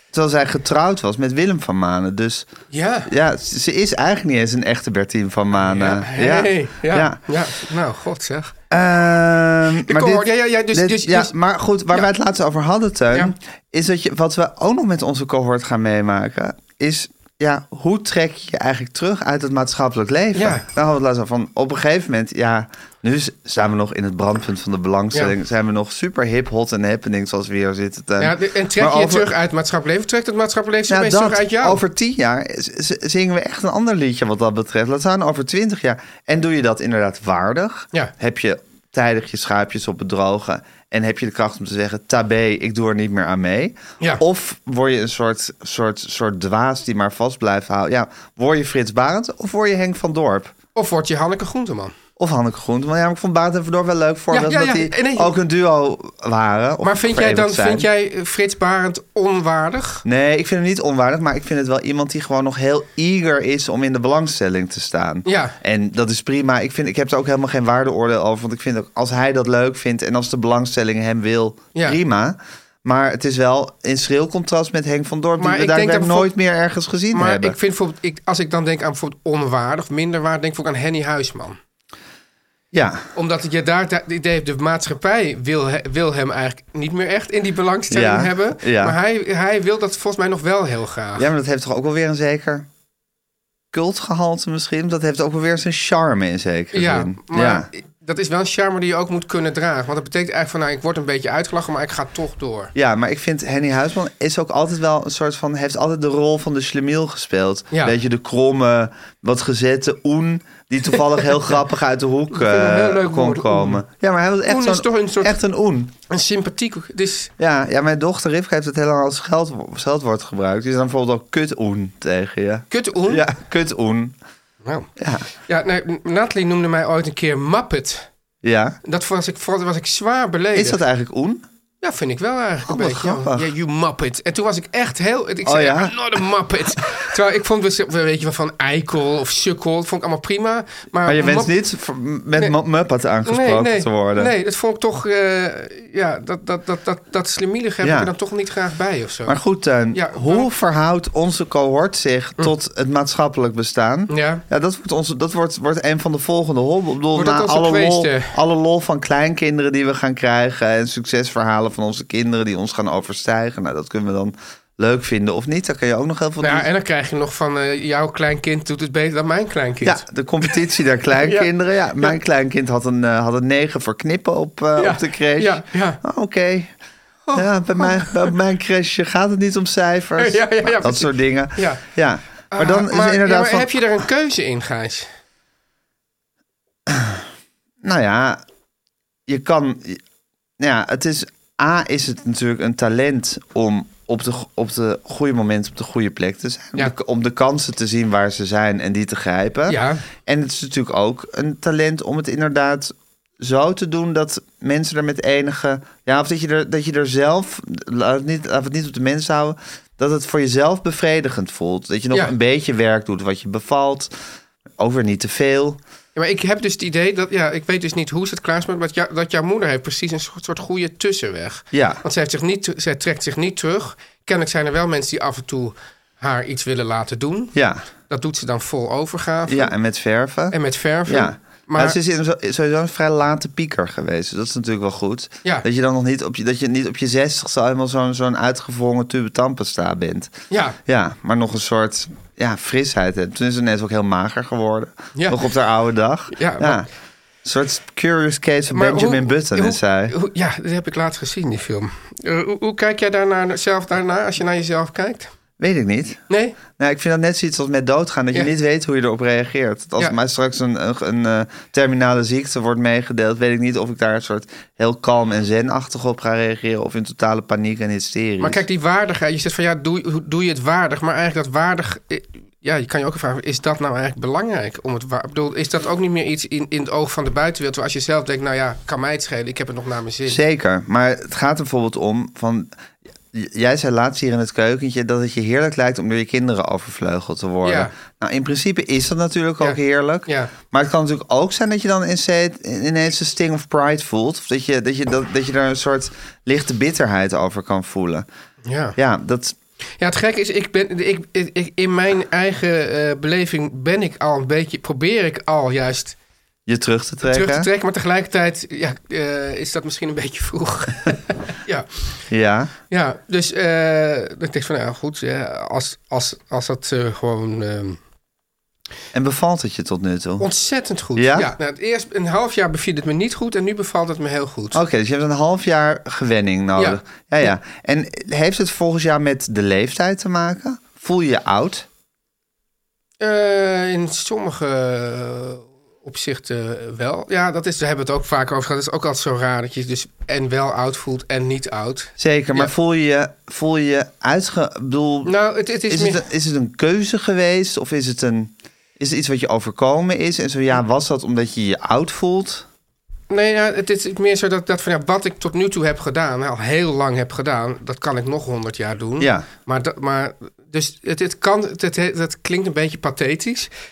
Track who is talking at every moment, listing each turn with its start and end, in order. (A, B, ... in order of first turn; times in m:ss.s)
0:00.1-0:02.5 A
0:02.7-0:03.1 B
0:03.0-0:07.2 A
0:05.6-0:08.5 B
0:08.7-0:29.3 A
0:09.8-0:11.3 B
0:20.3-0:20.6 B
0:28.2-0:31.8 B
0:30.9-0:50.5 A
0:50.8-0:51.9 B
0:52.2-0:57.9 A
0:54.3-0:55.3 B
0:56.8-1:00.0 B
1:00.0-1:17.6 A
1:05.3-1:05.5 B
1:15.4-1:16.3 B
1:17.1-1:21.6 B
1:22.7-1:23.1 A
1:23.1-1:31.3 B
1:27.9-1:29.0 A
1:31.2-1:32.7 A
1:33.7-1:37.7 A
1:36.7-1:42.7 B
1:42.7-1:55.9 A
1:52.3-1:53.8 B
1:54.5-1:55.4 B
1:56.1-1:57.3 B
1:57.4-2:04.1 A
2:02.7-2:03.3 B
2:04.6-2:04.9 B
2:05.0-2:05.3 A
2:05.5-2:08.0 B
2:08.4-2:08.8 A
2:08.8-2:10.8 B
2:10.5-2:11.4 A
2:11.8-2:21.5 B
2:12.7-2:13.5 A
2:15.4-2:16.0 A
2:21.0-2:24.3 A
2:23.2-2:29.4 B
2:27.8-2:28.1 A
2:29.2-2:46.7 A
2:29.9-2:30.5 B
2:34.1-2:34.4 B
2:37.1-2:38.3 B
2:46.4-2:50.6 B
2:49.8-2:56.7 A
2:51.2-2:51.5 B
2:54.8-2:56.0 B
2:57.2-2:58.3 B
2:57.3-3:03.8 A
3:00.2-3:01.8 B
3:02.5-3:05.1 B
3:06.9-3:07.2 A
3:07.8-3:08.4 A
3:09.3-3:10.0 A
3:10.6-3:34.1 A
3:19.7-3:20.0 B
3:34.8-3:35.8 A
3:36.2-3:47.5 B
3:41.7-3:42.0 A
3:47.5-3:47.8 A
3:48.1-3:49.7 B
3:49.5-3:50.5 A
3:50.5-3:52.0 B
3:51.0-4:00.3 A
4:00.5-4:00.8 B
4:00.9-4:06.9 A
4:05.1-4:05.4 B
4:06.3-4:06.8 B
4:07.4-4:10.1 A
4:08.7-4:15.3 B
4:15.6-4:16.2 A
4:16.3-4:16.6 B
4:16.8-4:28.6 A
4:28.4-4:40.4 B
4:40.2-4:42.7 A
4:43.3-4:58.3 A
4:47.6-4:47.9 B
4:49.6-4:50.5 B
4:58.6-4:59.0 B
4:59.0-4:59.6 A
5:00.0-5:06.2 B
5:06.7-5:07.7 A
5:07.2-5:12.1 B
5:12.3-5:12.7 A
5:12.9-5:18.0 B
5:19.1-5:20.5 A
5:20.4-5:24.8 B
5:21.2-5:21.5 A
5:24.7-5:31.9 A
5:26.8-5:27.5 B
5:33.2-5:42.7 B
5:42.2-5:45.3 A
5:45.2-5:46.2 B
5:45.9-5:52.7 A
5:53.3-6:03.7 B
5:59.2-5:59.5 A